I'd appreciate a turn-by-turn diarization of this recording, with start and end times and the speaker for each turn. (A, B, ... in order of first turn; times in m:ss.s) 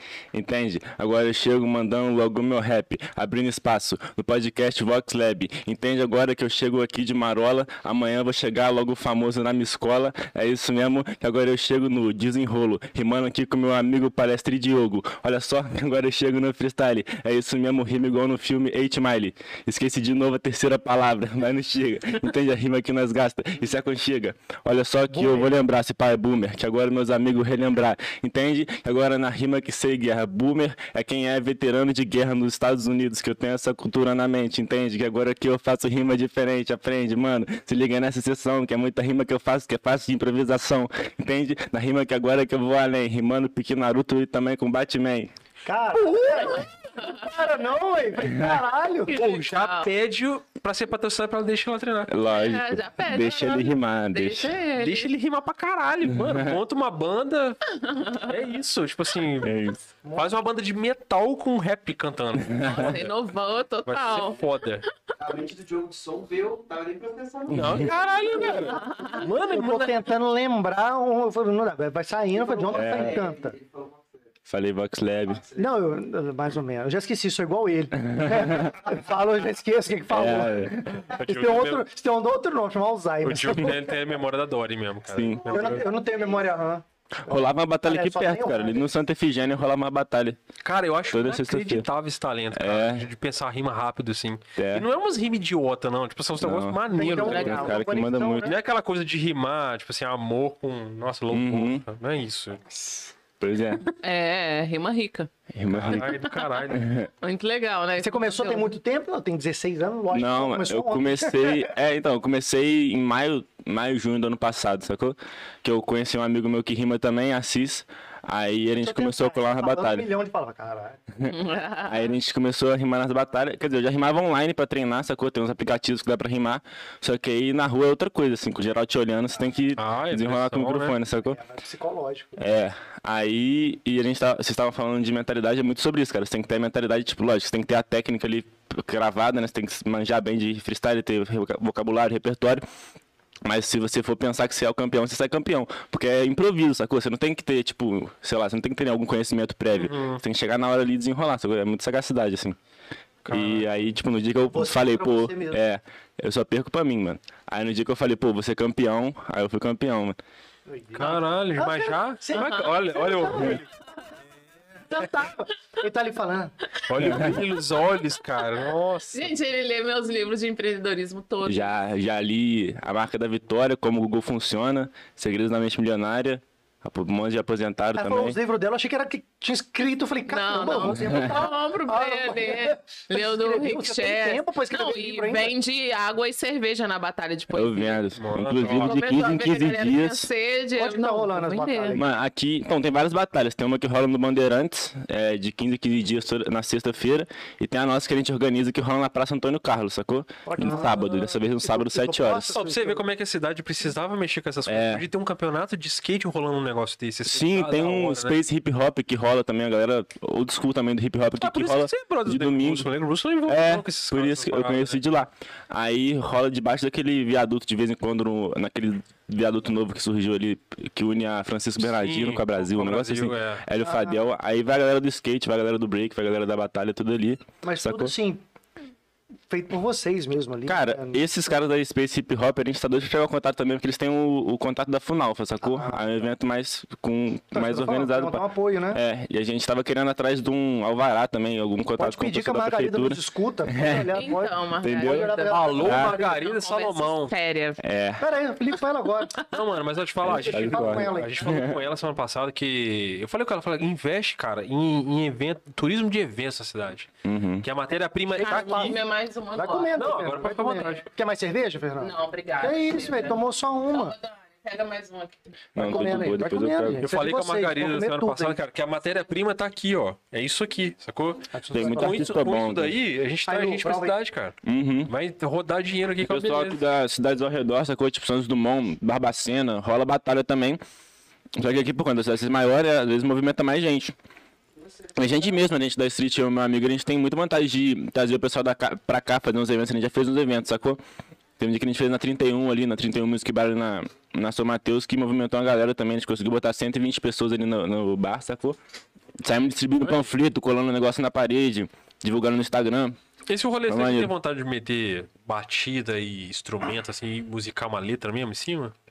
0:00.3-0:45.3 A
0:25.1-0:25.6 B
0:45.6-0:49.1 B
0:46.1-0:47.3 C
0:49.1-0:49.9 C
0:49.1-0:52.1 D
0:52.1-0:54.6 A
0:52.3-0:55.1 C
0:54.8-0:57.6 D
0:57.7-0:58.4 C
0:58.3-0:59.6 D
0:59.4-0:59.8 A
1:00.0-1:00.3 B
1:00.1-1:03.1 D
1:02.4-1:02.9 A
1:02.5-1:04.4 C
1:03.9-1:04.8 D
1:05.2-1:09.2 E
1:07.5-1:10.0 D
1:07.5-1:07.9 A
1:08.7-1:09.2 C
1:09.3-1:13.5 B
1:12.3-1:14.3 E
1:12.7-1:13.2 A
1:14.5-1:15.4 A
1:15.3-1:15.7 E
1:15.6-1:23.9 B
1:18.0-1:18.8 A
1:20.1-1:21.1 A
1:21.1-1:21.9 D
1:23.2-1:25.8 D
1:25.1-1:25.6 A
1:25.4-1:26.5 E
1:25.5-1:28.8 B
1:27.2-1:30.4 A
1:30.6-1:37.8 D
1:31.1-1:31.9 A
1:32.5-1:33.1 A
1:34.6-1:34.9 A
1:36.4-1:38.5 A
1:37.0-1:38.6 B
1:37.3-1:37.6 C
1:38.4-1:42.9 D
1:41.3-1:41.8 A
1:43.4-1:43.9 A
1:44.0-1:45.3 C
1:45.5-1:46.2 A
1:45.7-1:46.8 D
1:45.9-1:48.7 C
1:46.7-1:47.1 A
1:48.0-1:51.7 B
1:50.1-2:00.1 A
1:58.8-2:01.0 B
2:01.3-2:02.1 C
2:01.9-2:11.4 A
2:09.8-2:11.0 D
2:11.2-2:12.4 B
2:12.4-2:22.6 A
2:23.4-2:32.6 A
2:29.7-2:30.2 D
2:33.2-2:33.8 D
2:33.3-2:40.2 A
2:34.5-2:35.6 B
2:40.7-2:43.7 B
2:41.0-2:43.6 D
2:42.4-2:42.8 C
2:44.9-2:47.2 B
2:46.9-2:49.0 D
2:47.0-2:47.4 A
2:48.6-2:49.2 B
2:49.1-2:51.7 C
2:51.4-2:58.4 A
2:58.0-3:05.6 B
3:00.3-3:08.0 C
3:00.9-3:01.3 A
3:07.5-3:10.3 A
3:08.2-3:09.0 D
3:08.6-3:12.0 C
3:10.8-3:12.1 B
3:12.0-3:22.6 A
3:20.4-3:23.0 B
3:22.5-3:28.4 D
3:24.7-3:25.1 A
3:27.3-3:32.9 A
3:31.4-3:35.0 D
3:33.5-3:48.1 A
3:41.8-3:43.6 D
3:43.8-3:44.2 B
3:47.6-3:48.4 B
3:49.5-3:51.2 B
3:50.7-4:04.1 A
3:55.6-3:56.3 B
3:57.5-3:59.0 B
4:02.0-4:06.4 B
4:04.1-4:07.8 C
4:04.8-4:06.2 A
4:05.5-4:07.3 D
4:07.8-4:08.2 A
4:08.2-4:09.4 B
4:09.5-4:17.1 D
4:10.2-4:11.6 B
4:10.3-4:11.8 A
4:17.2-4:17.7 A
4:17.6-4:19.0 D
4:18.4-4:19.0 B
4:18.4-4:20.3 C
4:19.5-4:24.2 B
4:20.0-4:21.0 D
4:22.0-4:25.4 C
4:25.8-4:27.1 A
4:25.8-4:28.6 B
4:27.0-4:36.8 D
4:31.5-4:32.3 B
4:31.7-4:33.0 A
4:33.5-4:34.2 B
4:34.6-4:35.1 A
4:36.2-4:40.8 A
4:41.6-4:44.2 A
4:44.8-4:45.6 E
4:45.2-4:51.0 A
4:51.6-4:58.8 A
4:59.4-5:03.2 A
5:00.0-5:00.3 D
5:03.5-5:08.9 D
5:03.9-5:04.3 A